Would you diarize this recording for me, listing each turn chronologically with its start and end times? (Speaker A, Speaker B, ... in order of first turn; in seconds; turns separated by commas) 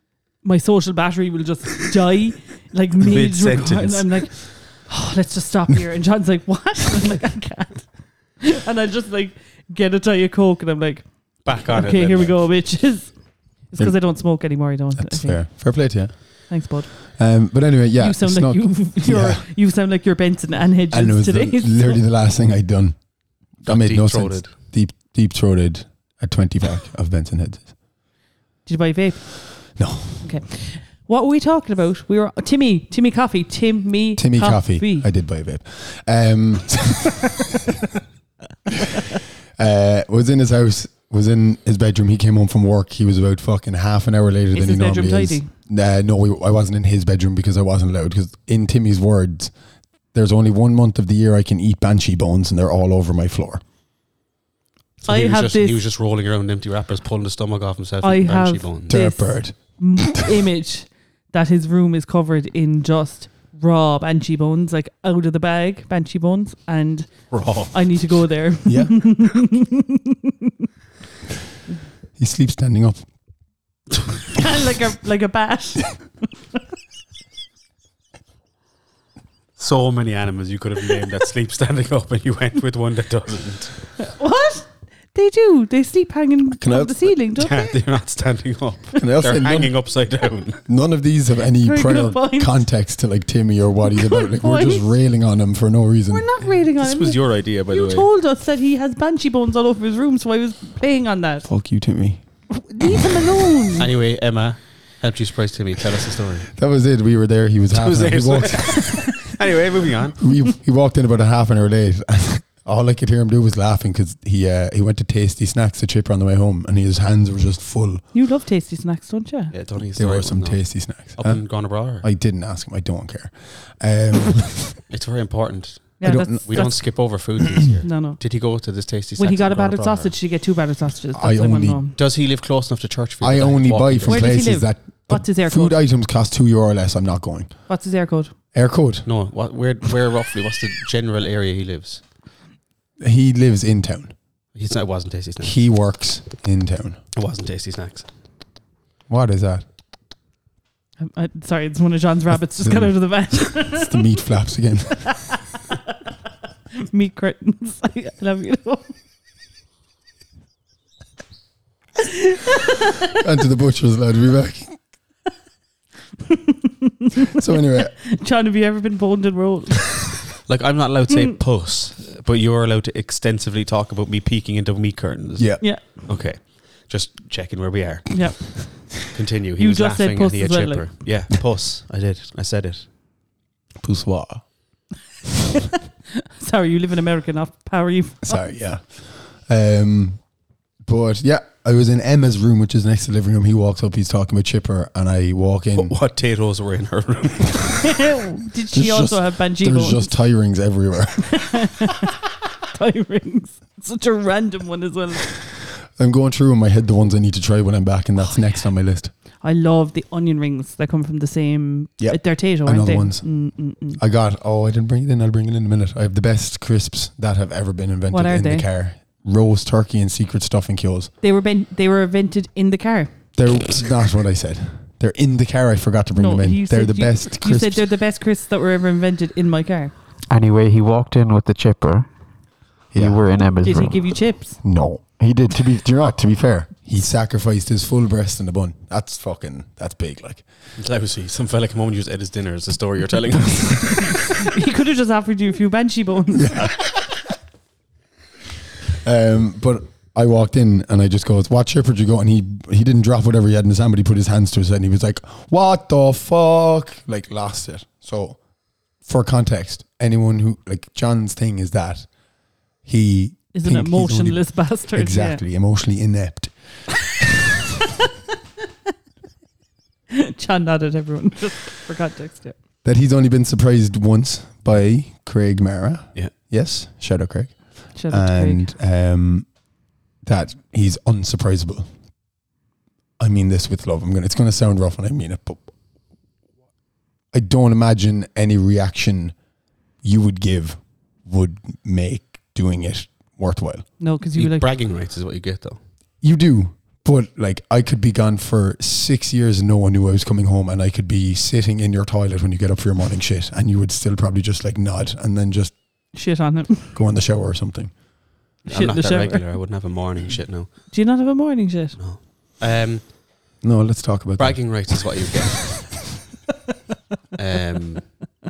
Speaker A: 0.4-15.9, Speaker B: 3.0-4.2, Speaker B: 11.4-12.4, Speaker C: 15.0-19.4, Speaker A: 16.5-17.4, Speaker A: 18.0-22.0, Speaker C: 20.9-27.8, Speaker B: 23.6-24.6, Speaker A: 28.7-35.1, Speaker C: 29.8-30.3, Speaker C: 34.2-37.4, Speaker C: 39.6-49.5, Speaker A: 44.5-45.5, Speaker C: 50.1-53.6, Speaker A: 55.0-55.8, Speaker B: 55.0-59.0, Speaker A: 58.0-70.3, Speaker C: 58.9-60.4, Speaker B: 67.3-67.7, Speaker C: 68.7-69.0, Speaker C: 72.2-73.0, Speaker A: 74.3-76.1, Speaker B: 79.6-83.8, Speaker A: 84.0-87.7, Speaker C: 86.6-87.1, Speaker B: 87.3-90.6, Speaker C: 89.0-89.8, Speaker C: 90.7-96.3, Speaker A: 91.6-92.7, Speaker A: 93.9-94.9, Speaker A: 96.1-101.5, Speaker B: 96.7-98.1, Speaker C: 101.5-102.2, Speaker A: 102.5-103.9, Speaker B: 103.8-106.5, Speaker C: 106.5-109.2, Speaker B: 107.7-110.2, Speaker C: 110.2-118.0, Speaker A: 118.1-119.5, Speaker B: 119.5-122.1, Speaker C: 119.8-124.8, Speaker B: 124.9-130.1, Speaker A: 126.0-127.0, Speaker C: 126.0-126.7, Speaker A: 127.8-128.2, Speaker A: 129.2-132.0, Speaker C: 131.2-131.8, Speaker B: 132.0-134.3, Speaker C: 133.2-137.6, Speaker A: 134.1-135.8, Speaker A: 137.7-138.3, Speaker C: 138.5-139.1, Speaker B: 139.1-142.0, Speaker C: 143.0-144.1, Speaker B: 144.5-145.6, Speaker C: 145.4-147.0, Speaker B: 147.1-148.1, Speaker C: 149.1-149.7, Speaker A: 151.0-154.2, Speaker C: 152.6-155.2, Speaker A: 155.1-155.8, Speaker A: 156.8-158.9, Speaker A: 162.3-163.1, Speaker C: 163.1-164.8, Speaker A: 166.3-166.9, Speaker C: 167.3-167.9, Speaker A: 167.9-170.0, Speaker B: 170.4-178.4, Speaker C: 175.4-175.6, Speaker A: 175.6-176.0, Speaker A: 178.1-180.9, Speaker B: 179.1-182.9, Speaker C: 183.8-184.5, Speaker A: 186.2-188.4, Speaker C: 188.2-190.2, Speaker C: 190.8-195.9, Speaker B: 195.7-197.8, Speaker A: 197.8-200.2, Speaker C: 198.7-201.7, Speaker A: 201.3-205.4, Speaker C: 205.9-209.1, Speaker A: 209.4-214.0, Speaker C: 212.0-221.1, Speaker A: 218.1-218.7, Speaker A: 221.2-223.1, Speaker C: 223.4-227.8, Speaker A: 226.2-229.9, Speaker D: 230.3-232.1, Speaker C: 232.9-233.2, Speaker D: 232.9-234.0, Speaker A: 233.6-234.6, Speaker C: 234.6-240.5, Speaker B: 240.8-244.1, Speaker A: 244.2-246.7, Speaker C: 246.3-247.2, Speaker C: 248.9-258.4, Speaker C: 259.0-262.1, Speaker C: 262.8-266.9, Speaker A: 263.5-265.4, Speaker A: 270.1-272.6, Speaker C: 272.8-279.6, Speaker A: 278.0-278.7, Speaker C: 280.2-281.9, Speaker C: 283.2-285.7, Speaker C: 287.3-289.4, Speaker C: 290.0-293.9, Speaker A: 294.0-294.7, Speaker B: 294.4-295.8, Speaker C: 296.2-306.0, Speaker A: 306.1-307.0, Speaker C: 306.9-307.9, Speaker A: 308.6-309.5, Speaker B: 308.7-310.9, Speaker A: 310.9-312.0, Speaker B: 312.0-313.1, Speaker C: 313.6-315.1, Speaker B: 314.4-315.6, Speaker B: 317.4-318.2